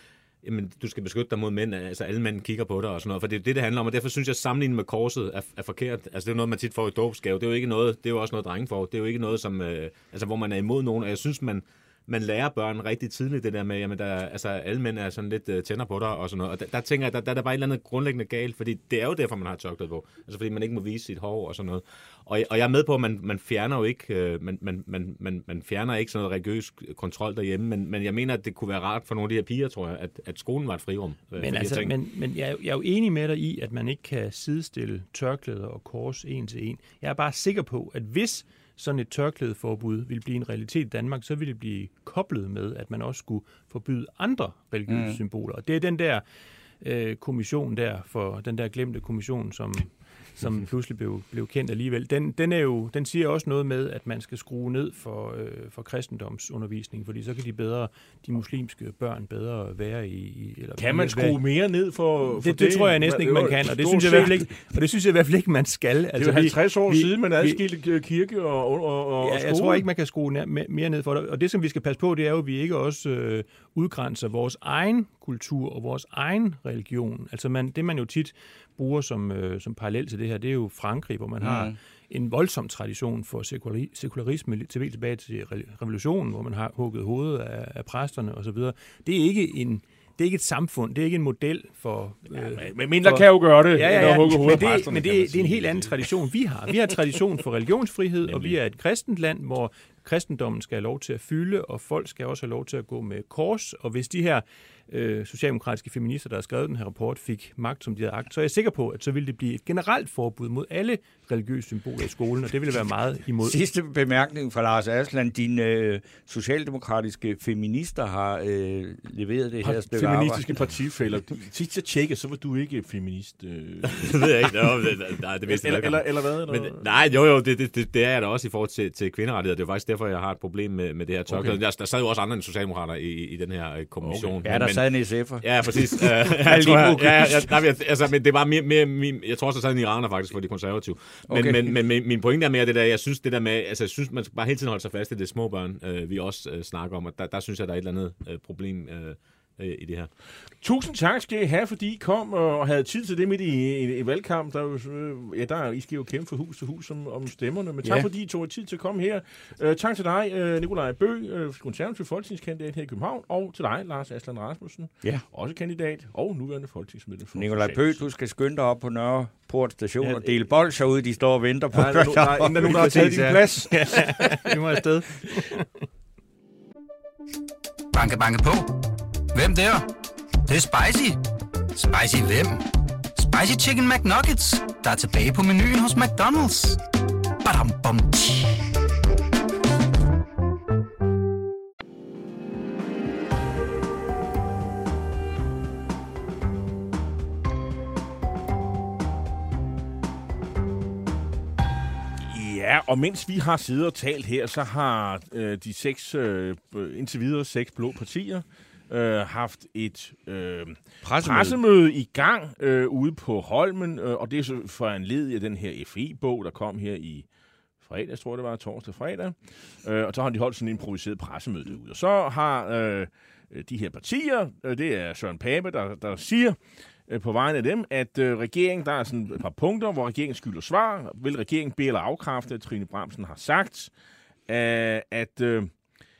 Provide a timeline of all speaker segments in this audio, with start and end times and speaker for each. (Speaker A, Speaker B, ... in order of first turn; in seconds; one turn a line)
Speaker A: 0.4-31.9
Speaker B: 31.4-46.2
Speaker C: 44.9-45.2
Speaker B: 46.8-61.4
Speaker D: 60.8-64.5
Speaker B: 62.3-67.6
Speaker D: 66.2-69.9
Speaker B: 69.2-113.6
Speaker C: 81.4-81.8
Speaker D: 92.4-95.9
Speaker D: 98.2-98.5
Speaker C: 113.4-120.5
Speaker D: 119.6-124.7
Speaker A: 123.8-134.8
Speaker D: 125.5-126.8
Speaker D: 131.3-131.6
Speaker D: 134.0-134.5
Speaker C: 134.4-137.6
Speaker A: 135.4-150.1
Speaker C: 141.3-141.8
Speaker D: 150.6-168.0
Speaker C: 167.3-173.4
Speaker D: 170.0-170.3
Speaker D: 171.7-174.5
Speaker B: 172.6-175.7
Speaker E: 177.9-178.8
Speaker E: 179.3-179.9
Speaker E: 180.4-181.2
Speaker E: 181.7-186.8
Speaker E: 187.4-188.8
Speaker D: 202.2-217.3
Speaker C: 211.0-211.6
Speaker D: 217.8-233.9
Speaker D: 234.5-235.7